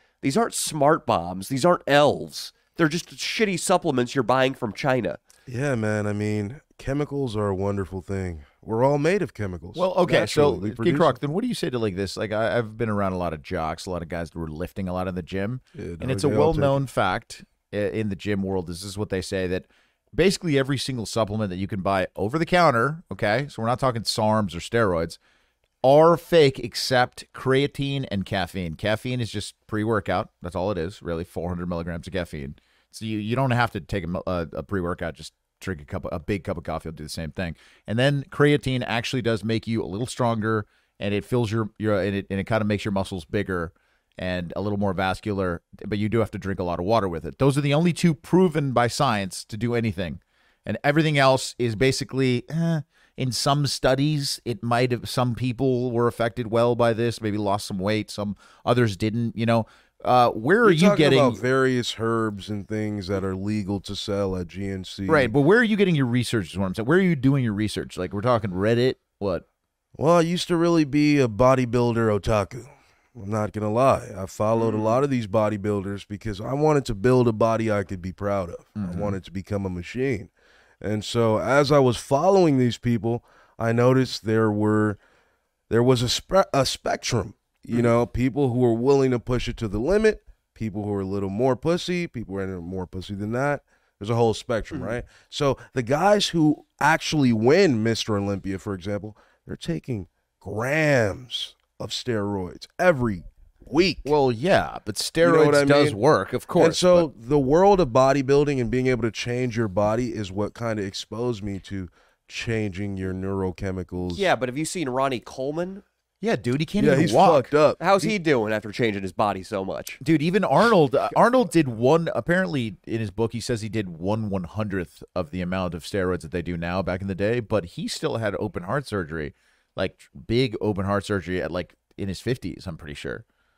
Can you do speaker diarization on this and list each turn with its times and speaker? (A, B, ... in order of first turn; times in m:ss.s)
0:00.2-0:05.2 A
0:05.5-0:11.2 B
0:09.7-0:25.2 C
0:15.8-0:16.8 B
0:25.8-1:01.4 C
1:00.6-1:05.3 B
1:05.1-1:09.4 C
1:10.0-1:20.3 B
1:14.6-1:15.0 A
1:18.8-1:19.2 C
1:20.8-1:25.0 B
1:25.7-1:44.1 B
1:44.0-1:47.1 C
1:45.2-1:46.0 B
1:46.6-1:54.3 B
1:54.1-1:55.8 A
1:56.2-1:57.5 C
1:56.8-1:58.1 B
1:57.8-2:00.0 A
2:00.0-2:13.2 C